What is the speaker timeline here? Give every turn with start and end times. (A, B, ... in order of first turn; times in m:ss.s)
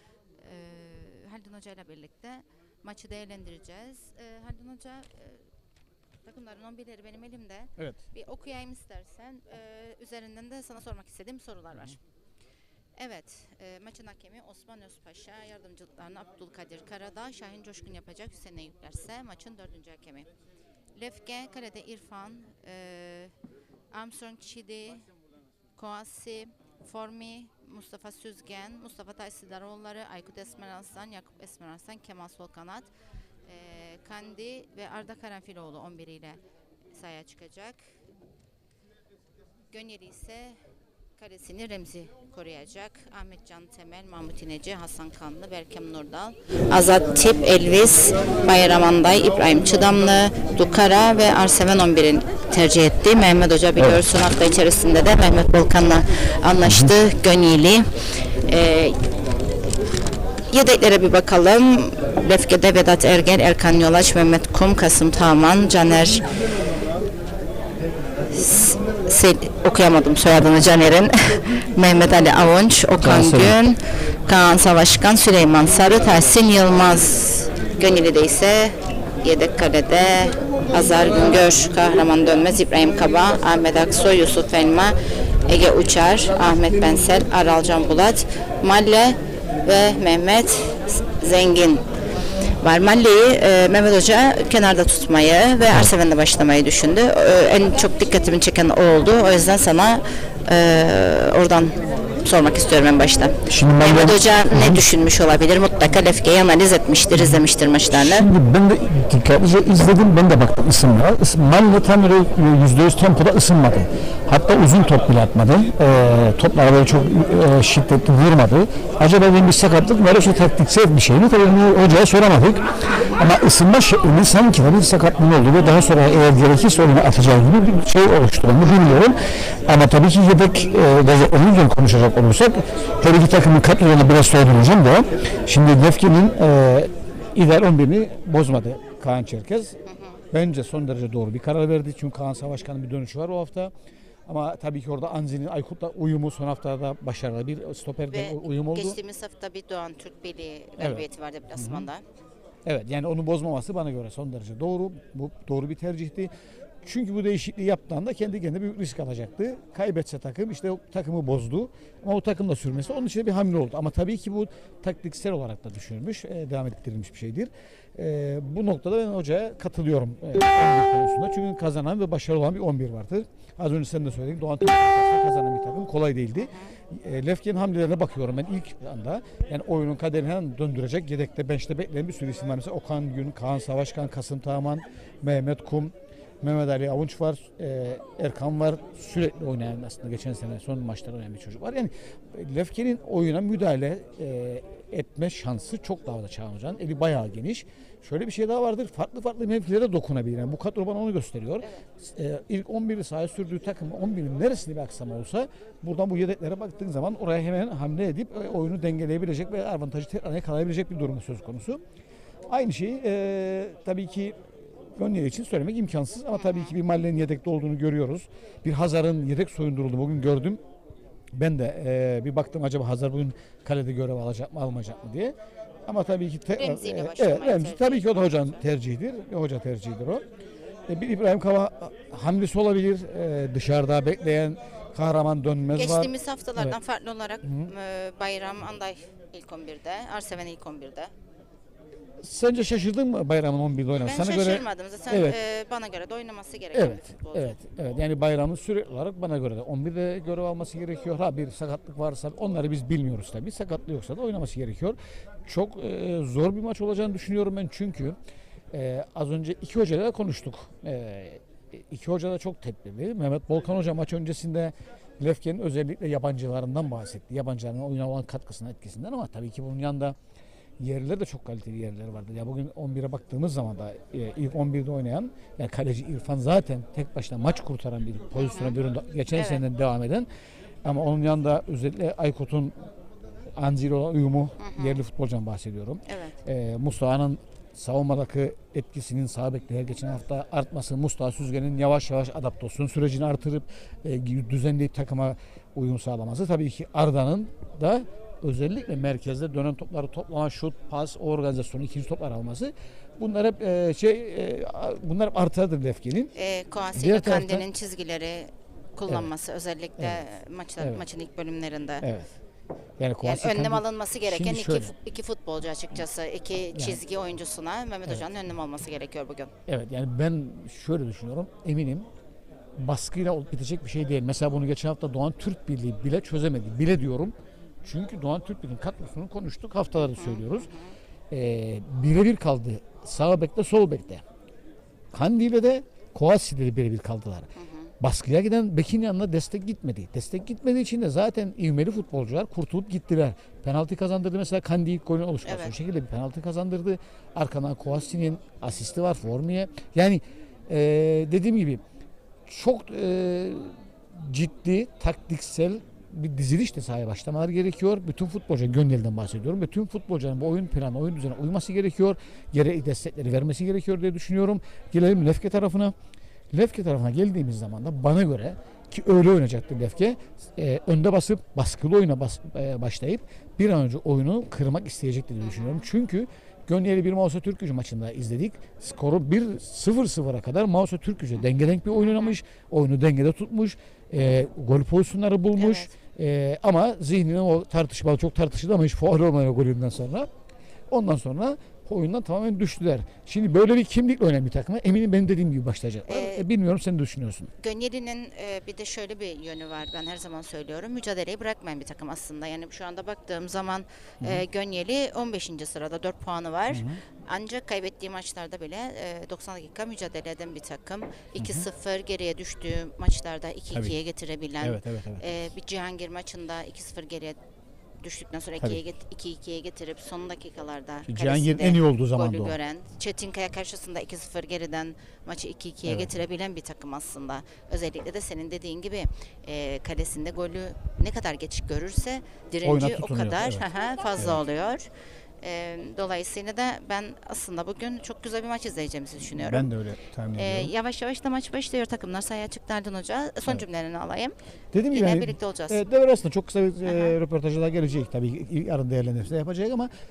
0:00.4-0:05.5 A
0:06.2-0:12.0 A
0:13.0-0:20.3 A
0:21.0-0:23.3 A
0:23.9-0:25.1 A
0:25.8-0:32.9 A
0:33.4-0:36.4 A
0:36.9-0:37.8 A
0:39.7-0:40.6 A
0:41.2-0:57.9 A
0:56.6-0:56.9 B
0:58.5-0:59.0 A
1:00.5-1:06.2 A
1:08.3-1:25.0 A
1:13.0-1:13.6 B
1:25.5-1:31.8 A
1:32.6-1:48.3 A
1:43.5-1:44.9 B
1:47.1-2:02.6 B
2:03.2-2:19.8 B
2:19.8-2:20.2 A
2:20.3-2:23.7 B
2:24.3-2:29.0 B
2:28.1-2:32.0 A
2:30.8-2:31.9 B
2:32.6-2:36.3 B
2:36.8-3:31.8 B
2:42.8-2:43.1 A
2:56.4-2:56.7 A
3:32.5-3:40.6 B
3:36.3-3:36.8 A
3:41.4-3:50.2 B
3:46.6-3:48.6 A
3:50.9-3:56.8 B
3:55.7-4:01.1 A
3:57.4-3:57.7 B
4:02.2-4:05.4 B
4:04.0-4:07.6 A
4:06.7-4:18.2 B
4:18.7-4:30.2 B
4:30.8-4:40.3 B
4:38.3-4:38.8 A
4:39.3-4:39.6 A
4:40.8-4:42.7 B
4:43.6-5:06.3 B
4:44.6-4:45.0 A
4:46.1-4:46.4 A
5:06.3-5:12.1 A
5:07.0-5:07.7 B
5:10.8-5:11.0 B
5:12.0-5:12.3 B
5:13.0-5:14.9 B
5:13.2-5:19.5 A
5:16.7-5:17.0 B
5:19.7-5:22.1 B
5:22.8-5:30.7 B
5:30.0-5:31.0 A
5:31.3-5:34.2 B
5:35.1-5:37.5 B
5:37.6-5:37.9 A
5:38.0-5:51.8 B
5:45.4-5:45.7 A
5:52.5-6:05.9 B
6:06.5-6:30.3 B
6:15.4-6:15.9 A
6:22.0-6:22.4 A
6:25.6-6:25.9 A
6:30.9-6:37.5 B
6:36.0-6:36.4 A
6:37.6-6:57.4 A
6:46.7-6:47.0 B
6:51.4-6:51.7 B
6:54.6-6:55.4 B
6:58.0-7:14.9 A
7:01.1-7:02.6 B
7:05.9-7:06.1 B
7:12.6-7:13.6 B
7:15.4-7:19.7 A
7:19.3-7:20.7 B
7:20.3-7:24.4 A
7:24.7-7:29.9 B
7:24.9-7:25.8 A
7:26.8-7:27.2 A